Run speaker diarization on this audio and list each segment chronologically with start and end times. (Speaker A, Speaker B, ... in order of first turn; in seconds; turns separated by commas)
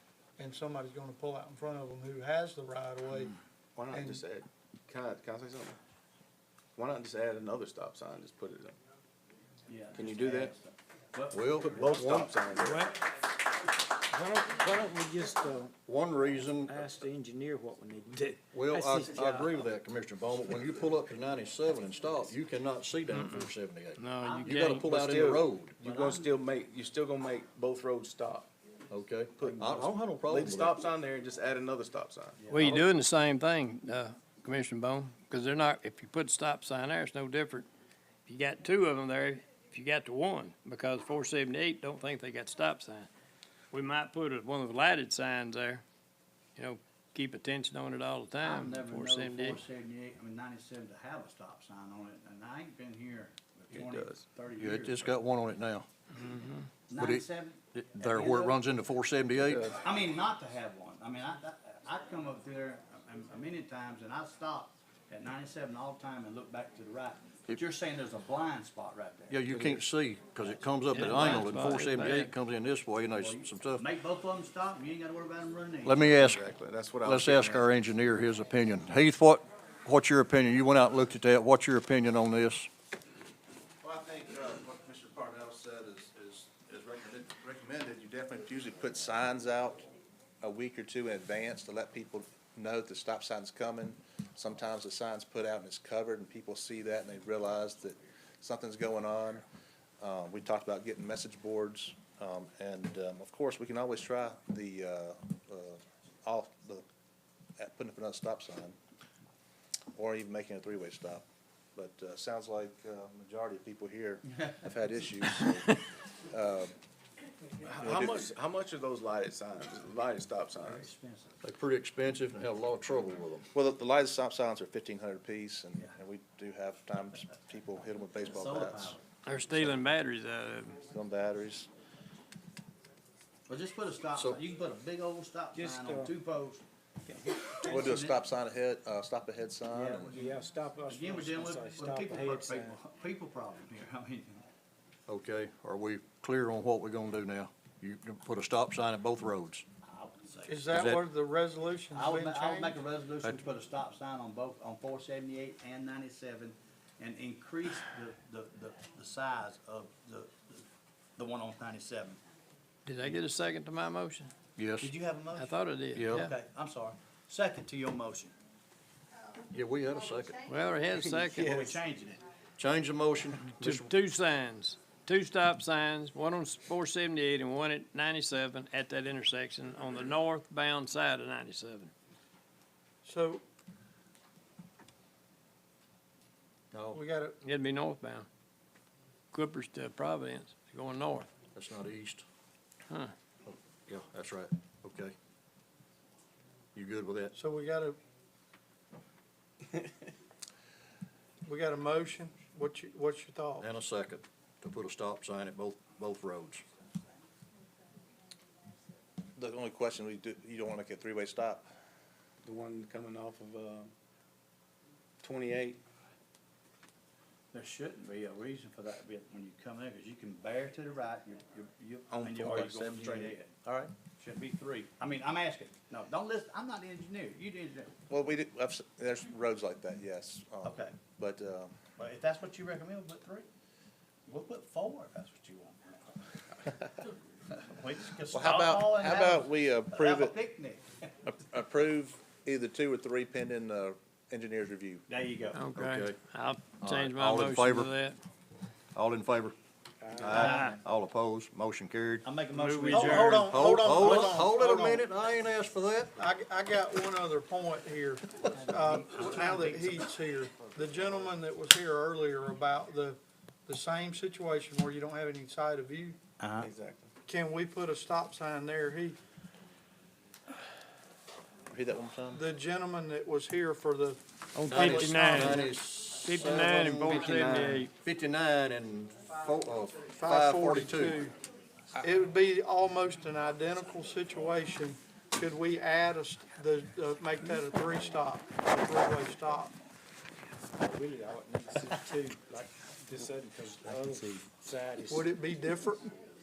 Speaker A: 0.4-3.3, Speaker B: 3.8-5.8, Speaker A: 3.9-4.2, Speaker B: 6.8-8.8, Speaker C: 9.7-12.3, Speaker B: 9.9-10.5, Speaker D: 11.3-12.3, Speaker B: 11.6-12.9, Speaker E: 12.6-12.9, Speaker F: 14.1-15.7, Speaker D: 15.9-16.8, Speaker F: 16.8-18.2, Speaker D: 18.5-25.8, Speaker E: 18.8-19.4, Speaker E: 23.1-24.9, Speaker C: 24.2-24.9, Speaker B: 24.9-28.5, Speaker C: 25.8-26.4, Speaker D: 28.9-30.8, Speaker B: 29.4-32.9, Speaker C: 32.4-32.8, Speaker E: 32.5-37.7, Speaker E: 38.3-43.1, Speaker E: 43.7-45.8, Speaker E: 46.6-49.6, Speaker C: 48.4-55.1, Speaker B: 53.7-54.3, Speaker D: 54.6-55.9, Speaker E: 56.1-56.7, Speaker C: 56.9-58.6, Speaker D: 57.0-59.7, Speaker B: 59.5-59.7, Speaker C: 59.7-69.4, Speaker D: 69.3-73.8, Speaker B: 69.5-69.8, Speaker E: 70.9-72.3, Speaker C: 71.0-72.1, Speaker C: 73.1-76.0, Speaker D: 75.8-76.5, Speaker B: 76.0-77.7, Speaker D: 77.0-82.7, Speaker G: 83.8-89.8, Speaker G: 90.4-99.5, Speaker G: 100.0-106.8, Speaker G: 107.6-108.8, Speaker G: 110.0-115.8, Speaker C: 114.3-114.5, Speaker G: 116.3-116.7, Speaker B: 117.6-120.9, Speaker G: 117.8-118.2, Speaker C: 120.6-121.3, Speaker D: 121.4-123.5, Speaker G: 123.5-129.0, Speaker C: 128.3-129.0, Speaker E: 129.2-130.8, Speaker G: 129.5-129.9, Speaker G: 130.8-131.7, Speaker C: 133.5-138.2, Speaker F: 135.6-136.1, Speaker G: 137.6-140.2, Speaker C: 139.7-144.4, Speaker F: 140.2-142.8, Speaker D: 145.1-149.7, Speaker C: 149.9-150.6, Speaker A: 150.5-152.8, Speaker D: 150.7-151.0, Speaker C: 151.9-160.7, Speaker C: 161.2-162.2, Speaker E: 162.9-164.3, Speaker D: 164.6-164.9, Speaker C: 164.8-165.6, Speaker E: 165.3-166.3, Speaker D: 165.9-166.3, Speaker C: 166.1-168.3, Speaker D: 169.5-170.4, Speaker E: 170.4-171.7, Speaker B: 170.9-171.8, Speaker C: 171.4-172.2, Speaker D: 172.6-173.9, Speaker E: 173.6-181.9, Speaker A: 183.0-183.4, Speaker D: 186.7-187.0, Speaker A: 186.9-187.4, Speaker E: 187.4-188.3, Speaker E: 189.3-191.3, Speaker D: 191.5-192.2, Speaker D: 193.5-195.2, Speaker D: 196.8-197.3, Speaker A: 197.3-198.0, Speaker A: 201.5-203.7, Speaker D: 203.6-206.7, Speaker G: 209.4-211.7, Speaker B: 212.4-213.9, Speaker B: 215.2-215.8, Speaker C: 217.5-228.0, Speaker B: 222.1-223.4, Speaker G: 223.7-223.9, Speaker G: 228.1-231.7, Speaker C: 230.6-231.0, Speaker C: 232.0-233.5, Speaker C: 234.3-236.2, Speaker C: 237.5-241.1, Speaker G: 238.3-240.3, Speaker G: 241.3-245.0, Speaker C: 245.1-245.6, Speaker E: 245.5-248.2, Speaker D: 245.8-246.2, Speaker D: 246.8-248.0, Speaker D: 248.9-249.6, Speaker D: 250.2-252.3, Speaker C: 250.2-250.8, Speaker E: 250.3-250.8, Speaker C: 252.2-254.4, Speaker E: 252.5-253.4, Speaker A: 252.9-255.1, Speaker D: 253.3-256.1, Speaker A: 256.2-266.2, Speaker C: 258.5-260.1, Speaker C: 266.4-266.7, Speaker B: 266.6-267.1, Speaker A: 267.3-269.2, Speaker G: 271.7-272.4, Speaker A: 272.3-275.7, Speaker E: 274.6-275.6, Speaker D: 274.7-277.2, Speaker E: 276.2-277.9, Speaker B: 276.9-277.9, Speaker D: 278.0-281.2, Speaker A: 280.2-281.3, Speaker A: 282.0-289.7, Speaker F: 290.8-295.1, Speaker A: 295.1-296.0